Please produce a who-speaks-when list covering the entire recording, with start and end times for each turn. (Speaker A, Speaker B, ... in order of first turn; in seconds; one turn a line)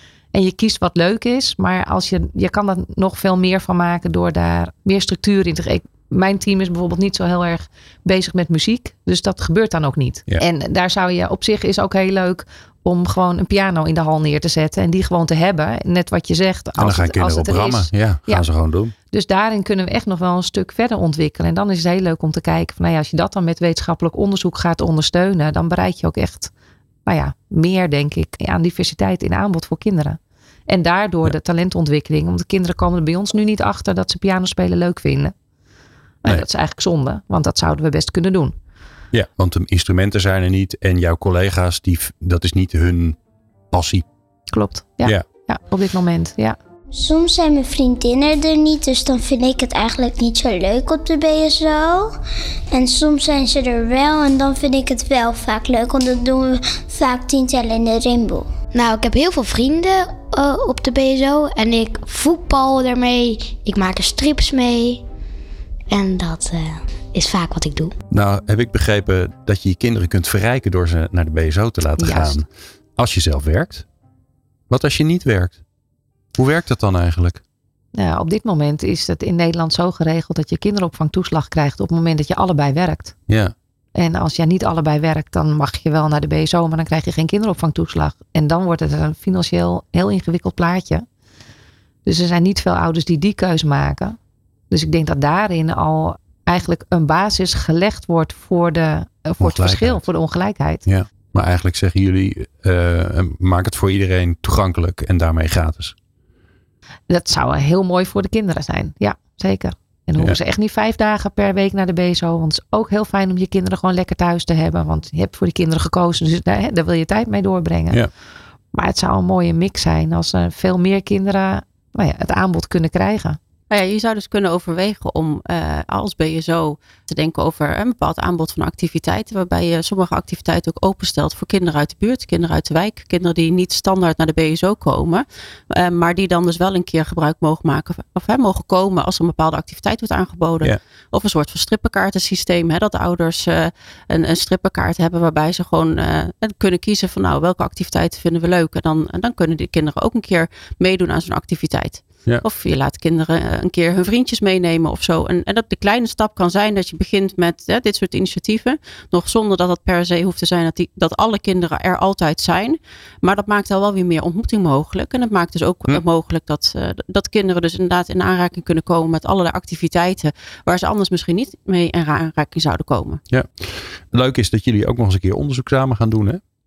Speaker A: 0.3-18.5
Speaker B: 16.8-18.9
Speaker A: 19.1-26.5
Speaker A: 27.1-35.3
Speaker A: 36.2-38.5
Speaker B: 39.1-43.2
Speaker B: 43.7-44.0
Speaker A: 44.5-46.6
Speaker C: 46.9-52.1
Speaker C: 52.7-58.5
Speaker D: 58.7-65.0
Speaker D: 65.9-67.9
Speaker B: 68.1-72.5
Speaker A: 72.0-72.4
Speaker B: 73.0-73.8
Speaker B: 74.7-75.6
Speaker B: 76.3-77.4
Speaker A: 77.9-83.1
Speaker B: 83.3-83.5
Speaker A: 83.9-91.0
Speaker A: 92.0-94.2
Speaker A: 94.7-100.8
Speaker B: 99.4-100.0
Speaker B: 100.8-106.0
Speaker A: 107.1-118.0
Speaker A: 118.7-123.4
Speaker E: 123.7-173.2
Speaker B: 173.3-176.4